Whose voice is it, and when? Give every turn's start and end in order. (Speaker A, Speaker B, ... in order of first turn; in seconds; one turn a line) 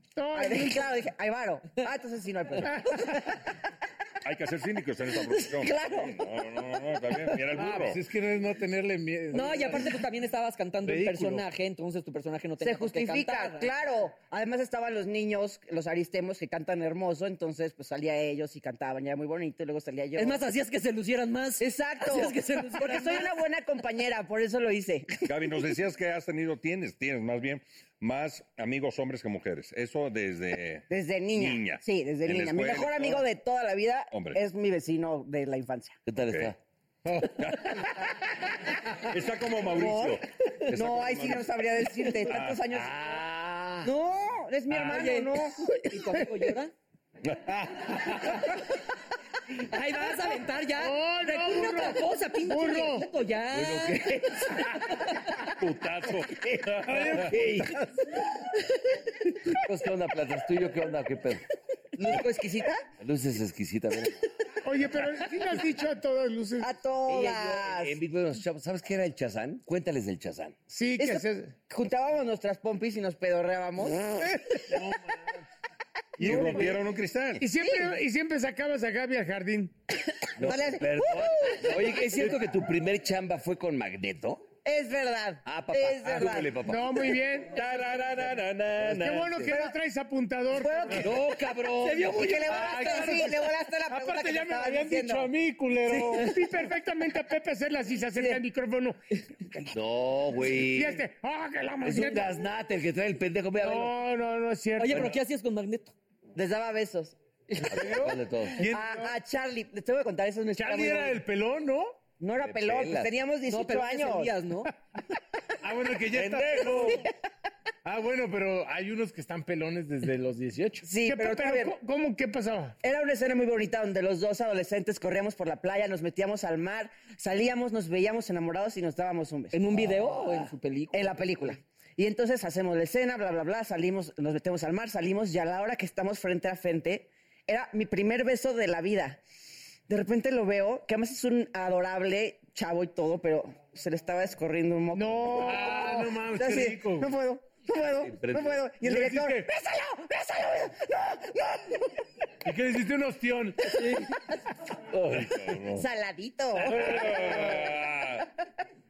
Speaker A: 0.1-0.9
Speaker B: 0.3-3.4
Speaker C: 4.2-8.0
Speaker B: 5.4-6.3
Speaker D: 7.5-10.0
Speaker E: 9.3-13.7
Speaker D: 10.8-11.4
Speaker B: 12.6-20.4
Speaker E: 20.1-23.3
Speaker B: 21.6-25.3
Speaker C: 25.2-33.2
Speaker B: 30.9-36.0
Speaker C: 34.1-34.4
Speaker F: 36.0-36.6
Speaker D: 37.0-37.6
Speaker C: 37.2-37.9
Speaker C: 39.0-41.5
Speaker B: 39.7-43.2
Speaker C: 42.3-42.9
Speaker F: 43.1-43.8
Speaker B: 43.8-45.7
Speaker E: 44.7-46.7
Speaker E: 49.6-54.0
Speaker A: 50.7-53.1
Speaker F: 53.5-54.3
Speaker C: 55.5-57.3
Speaker D: 56.8-57.7
Speaker F: 57.3-57.8
Speaker F: 59.5-61.4
Speaker F: 62.0-64.3
Speaker B: 62.0-62.8
Speaker A: 64.6-66.7
Speaker B: 66.6-68.0
Speaker F: 67.1-70.6
Speaker A: 70.7-71.5
Speaker B: 71.0-74.5
Speaker D: 74.7-75.1
Speaker C: 76.2-77.4
Speaker A: 76.2-76.6
Speaker B: 76.2-76.6
Speaker D: 76.3-76.7
Speaker A: 77.4-79.7
Speaker B: 77.6-77.9
Speaker F: 80.4-84.4
Speaker B: 80.4-82.0
Speaker B: 84.6-86.6
Speaker F: 85.5-87.1
Speaker A: 86.6-87.6
Speaker C: 87.5-89.3
Speaker A: 88.8-91.1
Speaker F: 89.2-89.5
Speaker B: 90.5-91.2
Speaker F: 91.0-92.4
Speaker E: 91.8-93.1
Speaker B: 92.0-95.3
Speaker D: 92.5-96.4
Speaker A: 96.1-99.0
Speaker F: 99.6-101.0
Speaker A: 100.5-102.5
Speaker F: 101.8-103.9
Speaker A: 103.6-105.2
Speaker E: 104.8-105.9
Speaker B: 106.3-107.2
Speaker F: 107.7-108.6
Speaker D: 107.7-109.1
Speaker B: 108.6-111.2
Speaker D: 110.5-112.0
Speaker B: 112.2-114.3
Speaker F: 112.4-113.1
Speaker E: 113.4-114.7
Speaker D: 115.6-117.1
Speaker F: 116.2-116.7
Speaker D: 117.8-120.9
Speaker B: 120.8-121.8
Speaker A: 121.0-122.8
Speaker B: 122.8-129.9
Speaker E: 129.5-131.5
Speaker B: 130.9-139.2
Speaker B: 139.9-151.9
Speaker A: 144.9-146.1
Speaker D: 145.3-147.1
Speaker F: 148.0-148.6
Speaker D: 148.8-149.5
Speaker D: 152.4-153.8
Speaker E: 153.7-154.0
Speaker C: 155.0-155.8
Speaker B: 155.7-157.7
Speaker C: 156.6-158.3